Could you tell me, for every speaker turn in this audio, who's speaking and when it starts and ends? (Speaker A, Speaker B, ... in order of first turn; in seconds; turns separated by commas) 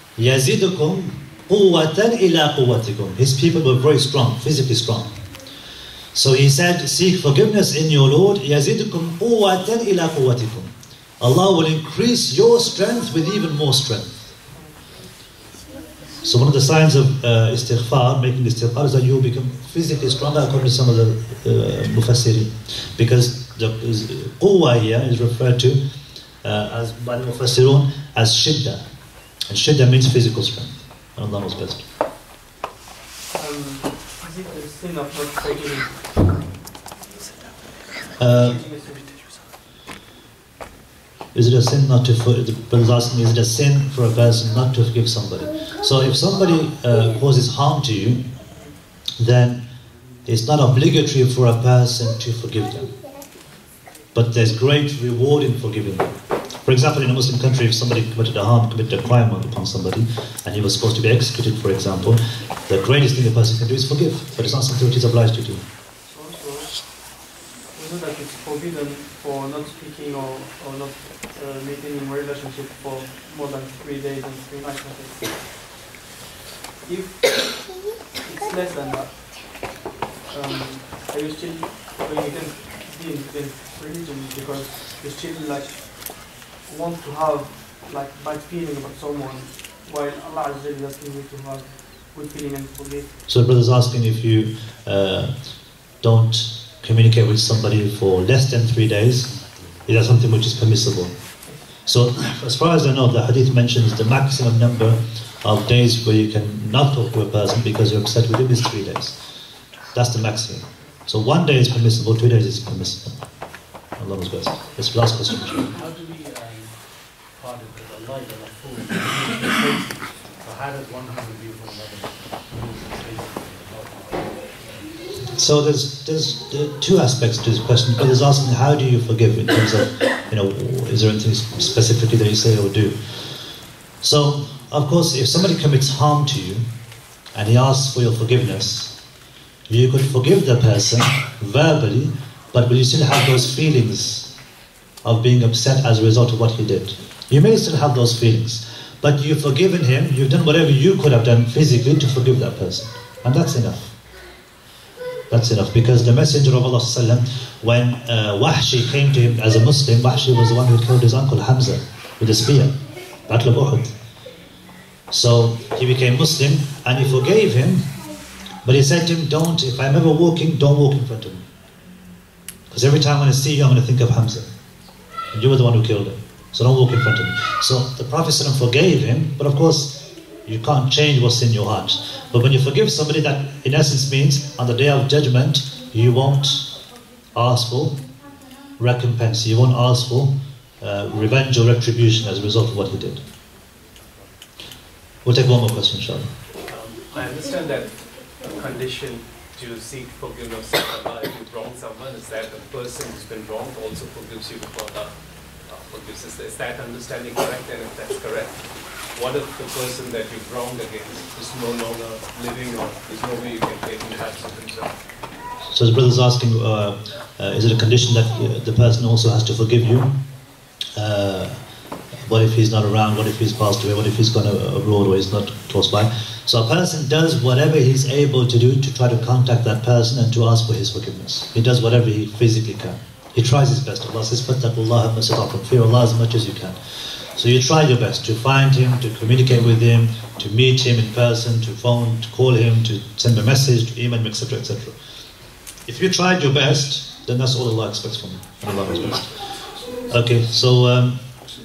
Speaker A: 0.2-5.1, Speaker A: 6.1-14.2, Speaker A: 16.2-25.8, Speaker A: 26.4-28.8, Speaker A: 29.5-31.9, Speaker B: 33.3-36.4, Speaker A: 38.2-38.6, Speaker B: 38.2-39.3, Speaker A: 41.3-48.2, Speaker A: 49.2-49.6, Speaker A: 50.2-52.9, Speaker A: 54.1-56.1, Speaker A: 56.6-65.6, Speaker B: 66.1-67.1, Speaker B: 67.7-75.6, Speaker B: 76.8-77.6, Speaker B: 78.2-79.6, Speaker B: 80.3-93.1, Speaker A: 93.3-95.3, Speaker A: 96.0-101.1, Speaker A: 101.8-109.2, Speaker A: 109.9-113.2, Speaker A: 114.0-115.7, Speaker C: 115.7-124.9, Speaker A: 125.3-133.0, Speaker A: 134.0-136.6, Speaker A: 137.3-138.9, Speaker A: 139.7-144.3, Speaker A: 145.0-153.9, Speaker A: 155.3-162.7, Speaker A: 163.3-163.9, Speaker A: 165.1-167.8, Speaker A: 168.6-171.4, Speaker A: 172.7-174.5, Speaker A: 175.3-186.8, Speaker A: 187.3-188.0, Speaker A: 188.8-193.2, Speaker A: 195.2-196.3, Speaker D: 196.7-205.1, Speaker D: 205.7-214.9, Speaker A: 215.7-220.1, Speaker A: 220.9-221.6, Speaker A: 222.2-236.8, Speaker A: 237.3-244.9, Speaker A: 245.9-249.3, Speaker A: 249.9-251.2